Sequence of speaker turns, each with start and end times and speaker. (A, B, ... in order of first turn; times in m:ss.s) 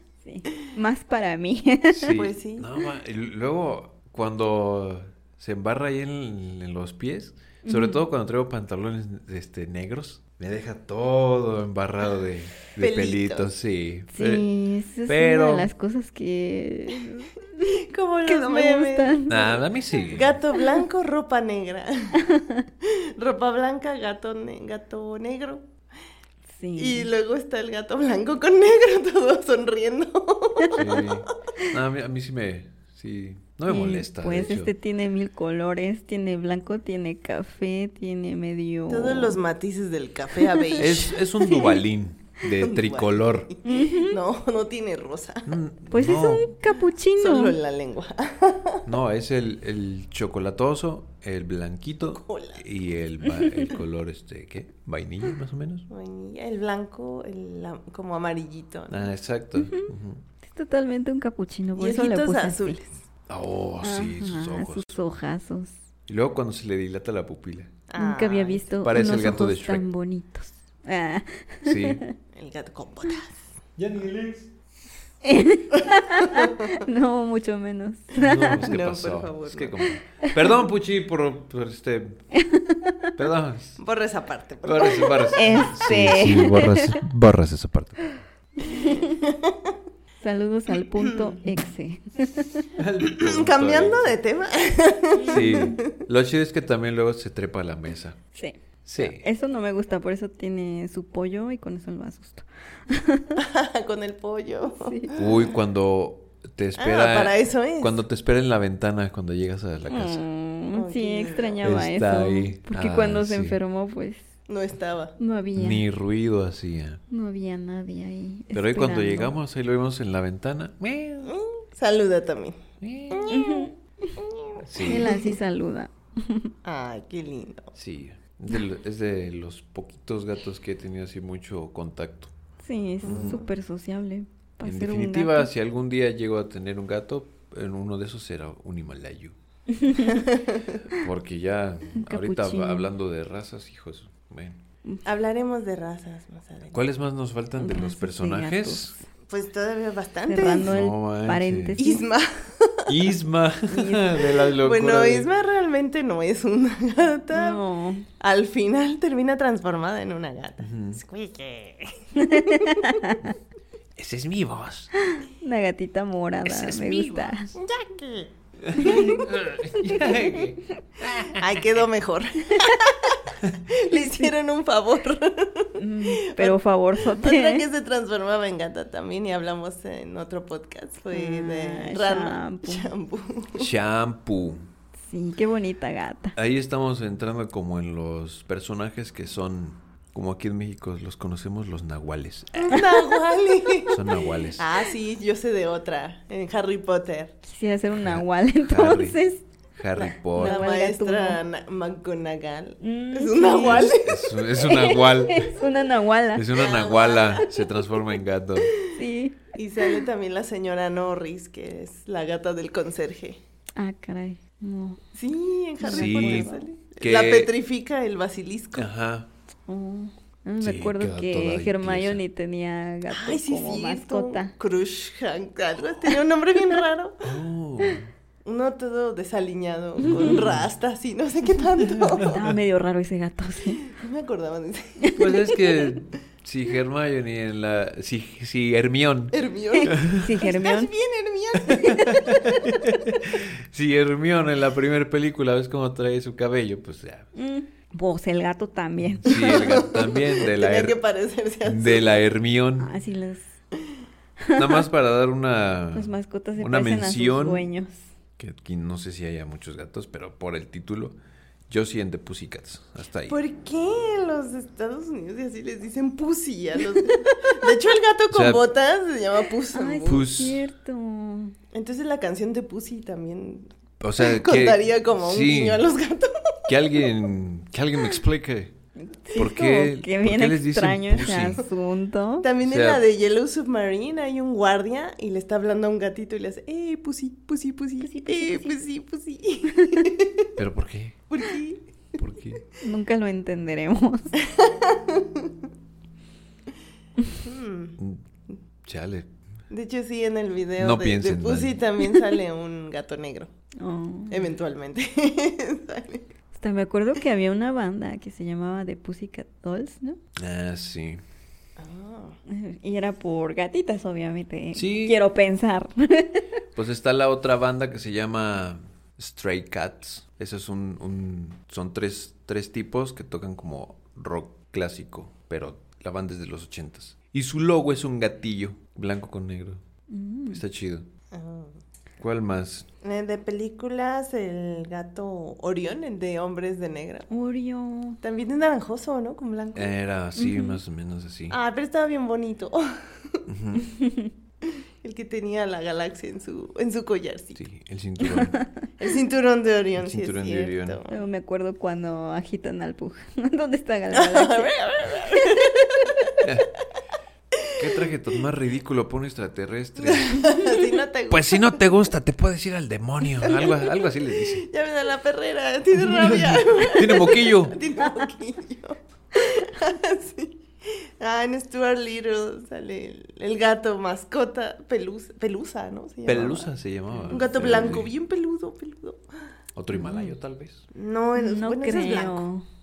0:00.2-0:02.2 A
0:01.9-0:14.5 B
0:02.1-0:02.7 C
0:07.6-0:08.0 A
0:12.8-0:13.5 C
0:14.1-0:19.5 A
0:15.1-0:15.7 B
0:17.6-0:19.4 C
0:19.3-0:20.4 B
0:20.1-0:22.2 C
0:22.2-0:22.6 A
0:22.8-0:25.6 C
0:26.6-0:27.1 A
0:26.8-0:31.1 C
0:30.7-0:34.7 B
0:33.7-0:39.4 A
0:38.9-0:41.5 C
0:40.8-0:43.5 B
0:41.5-0:41.7 A
0:42.6-0:45.6 C
0:43.6-0:44.2 A
0:45.5-0:46.5 B
0:45.9-0:47.6 A
0:47.2-0:48.8 C
0:48.8-0:55.9 B
0:52.1-0:52.6 C
0:53.3-0:53.7 A
0:55.9-0:59.1 C
0:58.9-1:00.2 B
0:59.6-0:59.9 A
1:00.4-1:02.8 A
1:01.8-1:02.9 C
1:03.3-1:04.9 B
1:03.8-1:05.8 A
1:06.1-1:07.7 B
1:07.9-1:08.7 C
1:08.0-1:12.1 A
1:08.8-1:09.8 B
1:11.6-1:12.0 B
1:12.4-1:13.5 C
1:13.8-1:14.5 B
1:15.2-1:18.7 A
1:16.2-1:16.8 C
1:18.2-1:22.2 B
1:18.5-1:19.8 C
1:22.4-1:23.1 A
1:23.2-1:23.8 B
1:23.8-1:25.6 C
1:24.6-1:28.2 B
1:25.3-1:27.0 A
1:28.6-1:29.2 A
1:28.6-1:29.7 C
1:30.2-1:32.7 A
1:30.8-1:31.4 C
1:32.8-1:34.1 B
1:33.0-1:36.0 C
1:35.2-1:35.8 A
1:35.2-1:38.2 B
1:38.4-1:43.4 A
1:38.8-1:39.3 B
1:43.4-1:45.2 C
1:44.8-1:45.1 A
1:45.2-1:50.2 B
1:46.8-1:48.0 C
1:49.9-1:54.3 A
1:50.7-1:51.6 C
1:51.6-1:53.6 B
1:54.5-1:55.2 C
1:55.2-1:55.8 A
1:55.6-1:57.0 B
1:57.1-1:59.3 A
1:58.5-2:01.4 B
2:01.2-2:05.4 C
2:02.8-2:03.4 B
2:03.3-2:04.1 A
2:04.6-2:05.2 B
2:04.8-2:06.5 A
2:06.6-2:07.7 C
2:07.7-2:12.3 B
2:12.6-2:15.5 A
2:13.0-2:13.4 C
2:13.0-2:13.4 B
2:14.6-2:19.4 B
2:19.7-2:20.3 A
2:20.1-2:20.8 C
2:20.9-2:24.6 B
2:22.0-2:22.9 A
2:25.0-2:26.8 C
2:26.7-2:28.9 B
2:27.6-2:29.0 A
2:29.3-2:30.7 C
2:30.3-2:32.0 A
2:30.6-2:31.8 B
2:31.8-2:32.9 C
2:32.9-2:35.3 B
2:33.7-2:34.3 A
2:34.6-2:37.6 C
2:37.3-2:38.1 A
2:38.2-2:43.0 C
2:40.6-2:41.0 B
2:42.2-2:43.2 A
2:44.0-2:44.9 B
2:45.1-2:47.5 A
2:46.4-2:47.4 B
2:47.6-2:49.2 C
2:48.6-2:51.7 B
2:48.8-2:49.2 A
2:51.3-3:03.7 C
2:53.9-2:54.3 A
2:55.8-2:57.7 A
3:01.1-3:02.9 A
3:03.6-3:04.7 B
3:05.0-3:06.4 A
3:06.4-3:12.8 B
3:12.6-3:14.0 C
3:13.9-3:14.7 B
3:14.6-3:17.4 C
3:17.4-3:19.4 A
3:18.0-3:19.2 B
3:19.8-3:20.6 B
3:20.3-3:21.4 A
3:20.4-3:24.3 C
3:22.8-3:23.9 A
3:23.6-3:25.5 B
3:24.6-3:26.5 A
3:26.3-3:28.7 B
3:26.6-3:27.5 C
3:28.8-3:30.0 A
3:29.6-3:33.4 C
3:33.8-3:35.0 A
3:35.2-3:38.9 C
3:35.8-3:36.6 A
3:35.9-3:36.5 B
3:37.0-3:37.5 B
3:38.8-3:39.3 B
3:39.7-3:44.5 A
3:40.6-3:42.2 B
3:43.1-3:47.3 C
3:47.2-3:48.1 B
3:48.4-3:52.4 C
3:50.0-3:50.4 A
3:50.1-3:50.7 B
3:51.8-3:52.6 B
3:52.3-3:53.9 A
3:53.8-3:55.1 C
3:55.0-3:55.5 A
3:55.1-4:00.3 B
3:59.3-4:03.0 C
3:59.8-4:00.9 A
4:01.7-4:07.3 B
4:07.4-4:09.8 A
4:09.1-4:11.0 B
4:09.3-4:12.2 C
4:11.6-4:12.9 B
4:12.8-4:13.5 A
4:14.5-4:14.8 A
4:14.6-4:17.7 B
4:16.0-4:18.0 A
4:18.4-4:21.2 B
4:21.7-4:23.4 B
4:23.3-4:30.3 C
4:28.3-4:28.6 B
4:29.7-4:31.6 A
4:30.0-4:30.6 B
4:31.7-4:36.7 C
4:34.0-4:35.9 B
4:36.7-4:38.8 B
4:39.1-4:42.5 A
4:39.4-4:41.6 B
4:42.4-4:50.5 C
4:42.6-4:43.0 B
4:48.0-4:48.8 A
4:50.6-4:51.2 B
4:51.3-4:51.8 C
4:52.2-4:52.6 B
4:52.8-4:54.4 A
4:54.4-4:55.5 C
4:57.4-4:58.0 C
4:58.0-4:58.2 B
4:58.8-4:59.3 B
4:59.7-5:03.5 C
5:00.8-5:01.8 B
5:03.8-5:04.5 A
5:04.3-5:06.3 C
5:06.5-5:10.2 A
5:10.4-5:11.2 B
5:11.8-5:12.4 C
5:12.5-5:16.4 A
5:14.8-5:15.2 B
5:16.8-5:29.8 B
5:30.1-5:30.6 A
5:30.5-5:31.1 B
5:31.3-5:31.7 C
5:32.2-5:32.9 B
5:33.0-5:37.3 C
5:37.3-5:38.2 A
5:38.2-5:40.0 C
5:39.8-5:41.6 B
5:40.4-5:40.8 A
5:41.5-5:43.4 C
5:43.5-5:43.9 B
5:43.9-5:44.3 A
5:45.0-5:47.6 C
5:47.6-5:48.6 B
5:48.3-5:48.6 A
5:49.0-5:51.2 C
5:50.0-5:51.0 B
5:51.1-5:55.9 A
5:54.1-5:56.4 C
5:56.4-5:56.7 B
5:57.8-6:00.5 B
6:00.0-6:01.8 C
6:01.3-6:04.7 B
6:04.5-6:16.7 C
6:06.0-6:07.8 B
6:16.3-6:18.1 B
6:17.1-6:17.4 A
6:17.3-6:19.2 C
6:19.8-6:20.9 B
6:19.9-6:20.4 A
6:20.9-6:22.4 C
6:21.4-6:22.6 A